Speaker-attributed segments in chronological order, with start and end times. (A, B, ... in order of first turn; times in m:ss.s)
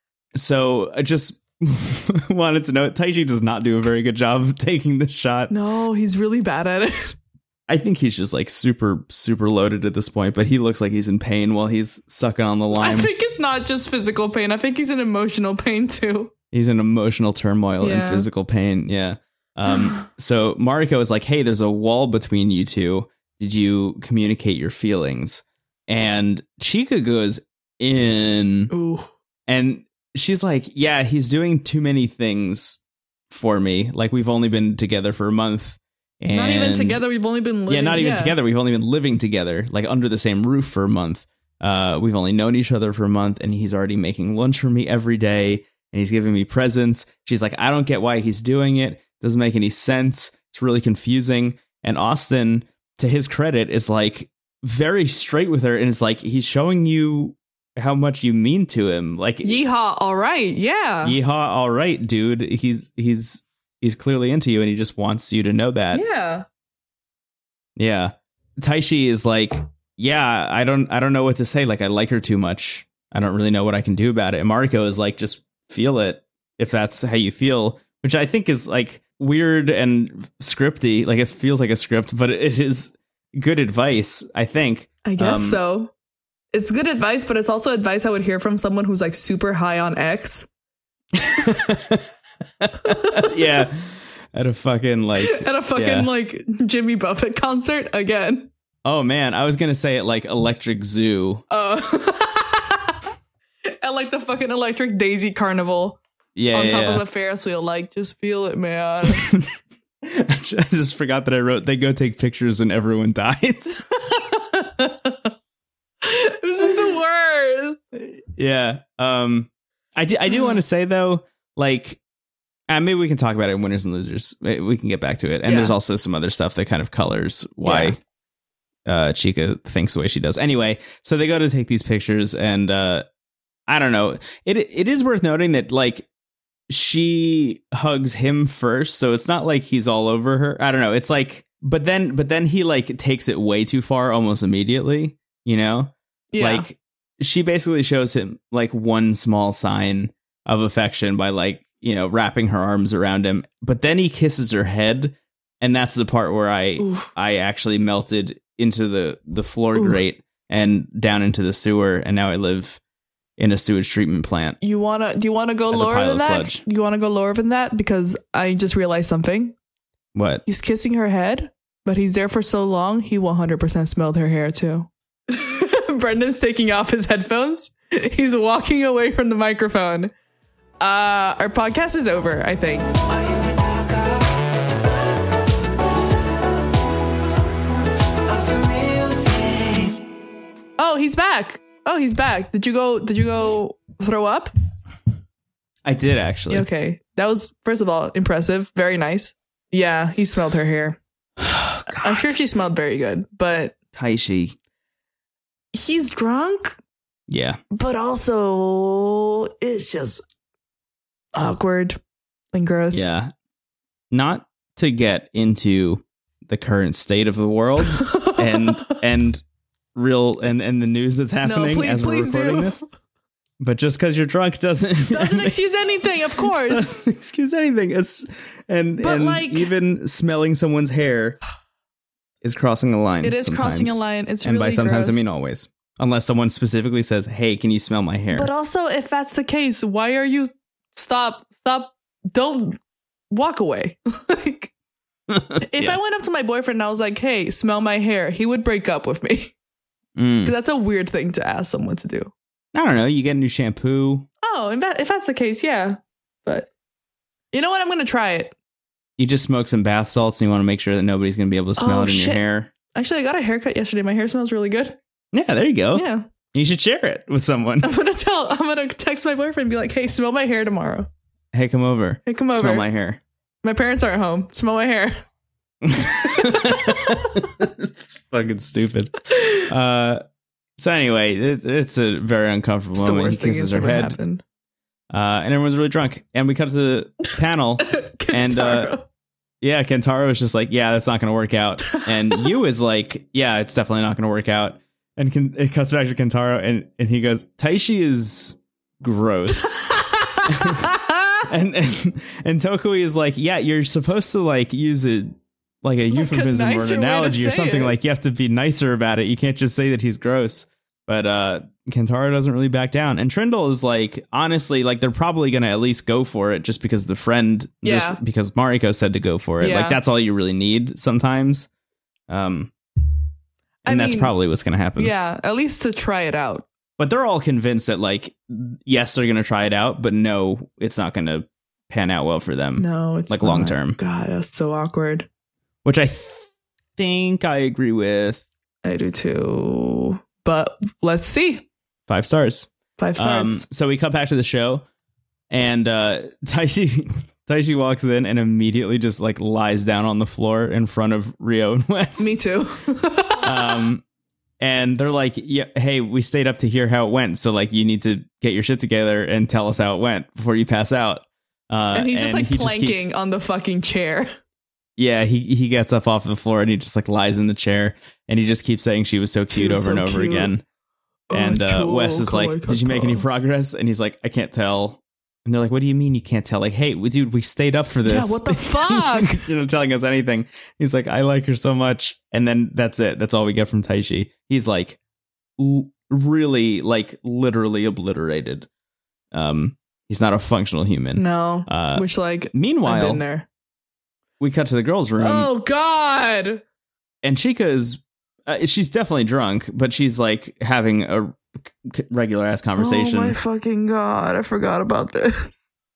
0:00.3-0:05.5 A
0:05.5-0:07.1 B
0:07.7-0:13.1 A
0:12.7-0:16.3 B
0:16.5-0:28.7 A
0:17.8-0:18.3 B
0:19.7-0:20.0 B
0:28.7-0:29.1 B
0:29.5-0:37.0 A
0:36.3-0:38.4 B
0:37.7-0:59.6 A
0:59.4-1:01.2 B
1:01.0-1:06.0 A
1:05.9-1:06.4 B
1:07.8-1:25.6 A
1:25.0-1:25.9 B
1:26.5-1:30.5 B
1:31.2-1:32.0 A
1:32.6-1:36.1 A
1:32.8-1:33.6 B
1:35.2-1:38.5 B
1:38.8-1:41.4 A
1:41.5-1:42.9 B
1:43.8-1:46.0 B
1:46.4-1:47.0 A
1:46.5-1:49.3 B
1:49.1-1:49.5 A
1:50.0-1:53.8 A
1:53.9-1:55.2 B
1:56.0-1:57.8 B
1:57.9-2:02.0 A
2:02.7-2:08.0 A
2:05.4-2:05.7 B
2:07.6-2:07.9 B
2:08.8-2:13.0 A
2:13.7-2:16.0 A
2:16.7-2:42.8 A
2:26.3-2:26.7 B
2:36.8-2:37.1 B
2:39.7-2:40.0 B
2:43.4-2:44.6 A
2:44.6-2:49.6 B
2:45.7-2:46.6 A
2:50.1-2:50.4 A
2:50.4-3:00.1 B
3:00.8-3:02.9 B
3:02.9-3:04.4 C
3:08.2-3:10.0 C
3:10.8-3:14.5 B
3:15.8-3:16.7 A
3:16.5-3:21.0 B
3:21.9-3:22.1 A
3:21.9-3:23.8 B
3:23.9-3:24.6 A
3:25.7-3:26.8 B
3:27.3-3:27.6 A
3:27.7-3:30.2 B
3:31.3-3:32.0 B
3:32.5-3:33.1 B
3:32.9-3:33.3 A
3:34.1-3:39.4 A
3:38.0-3:39.0 B
3:39.9-3:42.8 A
3:41.4-3:42.8 B
3:43.6-3:45.6 A
3:45.1-3:47.0 B
3:46.4-3:51.4 A
3:49.0-3:49.7 B
3:52.4-3:58.5 A
3:53.2-3:55.2 B
3:58.3-4:02.8 B
4:03.3-4:04.7 B
4:05.3-4:06.0 A
4:05.6-4:09.5 B
4:10.2-4:10.5 A
4:10.4-4:12.3 B
4:12.7-4:14.3 A
4:14.4-4:16.7 B
4:17.5-4:18.5 B
4:19.2-4:22.7 A
4:21.8-4:22.4 B
4:22.9-4:25.0 B
4:25.3-4:27.9 A
4:25.9-4:26.3 B
4:27.8-4:31.1 B
4:31.5-4:33.2 A
4:32.2-4:32.9 B
4:33.6-4:35.2 B
4:35.8-4:40.2 A
4:36.0-4:37.3 B
4:39.3-4:39.6 B
4:40.8-4:44.2 A
4:42.9-4:44.4 B
4:45.1-4:48.9 A
4:47.8-4:49.0 B
4:49.6-4:59.9 A
4:51.8-4:52.5 B
4:59.6-5:01.2 B
5:00.5-5:00.9 A
5:01.4-5:05.3 A
5:05.8-5:21.7 A
5:06.1-5:08.0 B
5:17.8-5:18.2 B
5:19.6-5:20.0 B
5:22.3-5:22.7 A
5:23.8-5:24.3 B
5:23.8-5:25.1 A
5:25.0-5:26.6 B
5:27.0-5:34.0 A
5:32.8-5:35.3 B
5:35.8-5:38.4 A
5:38.8-5:41.6 B
5:42.1-5:44.8 A
5:43.0-5:43.6 B
5:45.5-5:52.4 A
5:52.2-5:53.8 B
5:53.4-5:54.0 A
5:54.6-6:03.1 A
6:01.9-6:04.3 B
6:05.0-6:10.6 A
6:09.5-6:10.5 B
6:11.3-6:13.2 B
6:11.3-6:25.0 A
6:18.0-6:19.4 B
6:25.6-6:28.7 A
6:29.3-6:33.2 A
6:31.2-6:33.5 B
6:34.4-6:35.5 A
6:35.2-6:36.6 B
6:37.2-6:43.4 A
6:42.8-6:45.5 B